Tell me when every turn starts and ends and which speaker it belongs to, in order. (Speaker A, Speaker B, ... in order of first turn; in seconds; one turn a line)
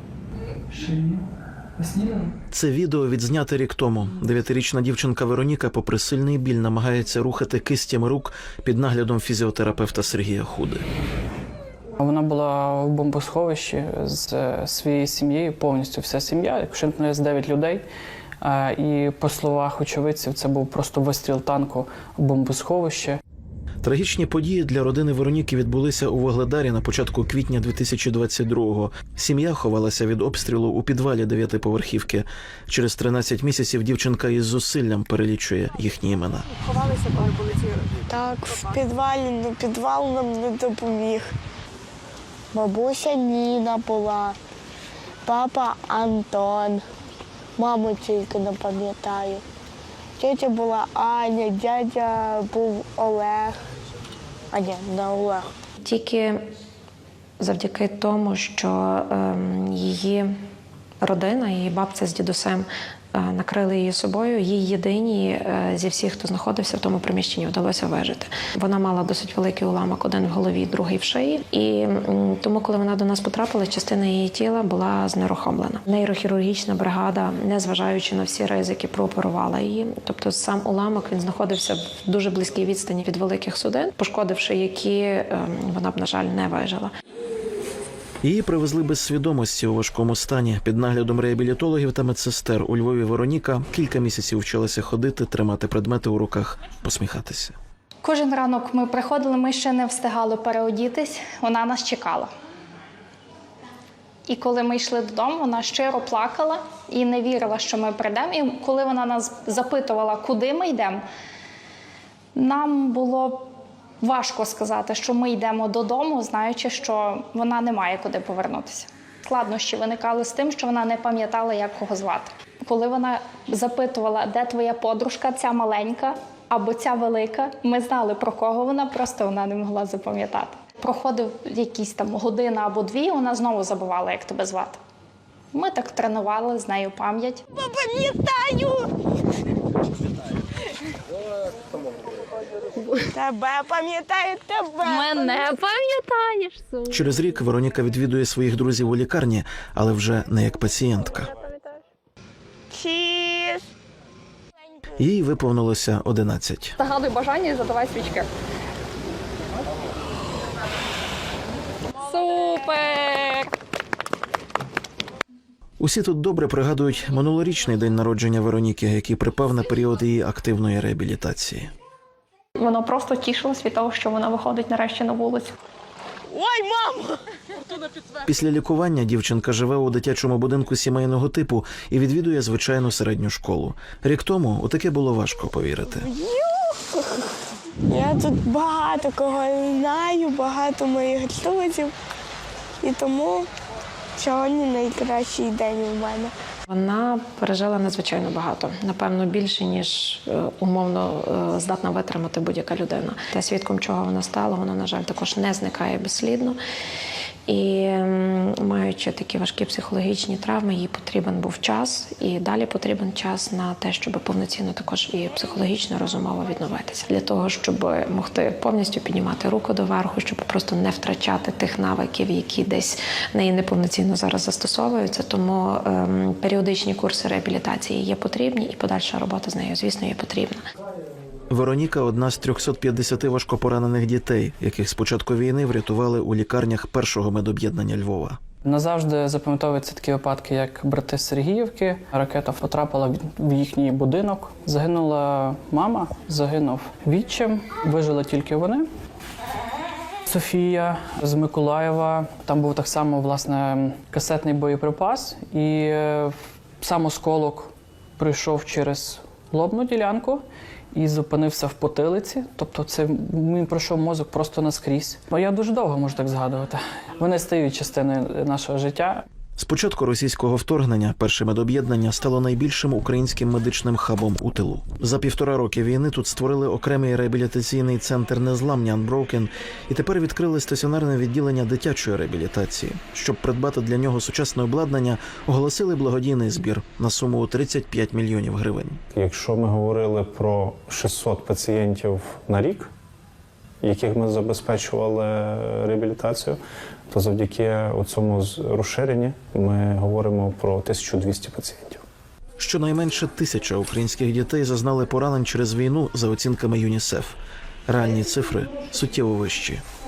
Speaker A: 0.7-1.2
Speaker A: 1.8-2.3
Speaker B: 2.5-10.8
Speaker A: 12.0-17.8
Speaker A: 18.4-23.2
Speaker B: 23.8-36.5
Speaker C: 37.1-37.5
Speaker C: 38.1-41.3
Speaker C: 42.5-44.4
Speaker C: 45.3-46.8
Speaker C: 47.6-49.4
Speaker C: 50.2-53.6
Speaker C: 54.5-55.5
Speaker D: 55.8-56.4
Speaker D: 57.4-60.3
Speaker D: 61.0-86.9
Speaker B: 88.2-97.5
Speaker E: 98.0-102.3
Speaker E: 104.3-111.0
Speaker E: 112.3-113.5
Speaker E: 114.0-134.8
Speaker E: 135.5-137.4
Speaker C: 137.6-138.9
Speaker C: 143.1-145.5
Speaker F: 144.8-146.9
Speaker B: 146.9-151.3
Speaker F: 151.3-151.8
Speaker C: 152.7-153.7
Speaker B: 155.0-156.8
Speaker F: 156.8-158.3
Speaker F: 162.0-163.5
Speaker B: 165.8-171.7
Speaker F: 172.6-175.6
Speaker C: 176.3-177.2
Speaker B: 178.3-186.1
Speaker C: 186.0-187.0
Speaker C: 187.9-191.9
Speaker C: 192.8-193.5
Speaker C: 194.2-196.3
Speaker D: 196.7-206.6
Speaker D: 207.5-230.6
Speaker B: 231.5-238.4
Speaker A: 238.7-248.9
Speaker A: 250.3-260.4
Speaker A: 260.9-269.3
Speaker B: 269.6-289.0
Speaker G: 289.1-292.9
Speaker G: 293.9-296.6
Speaker G: 297.1-302.0
Speaker B: 302.6-309.8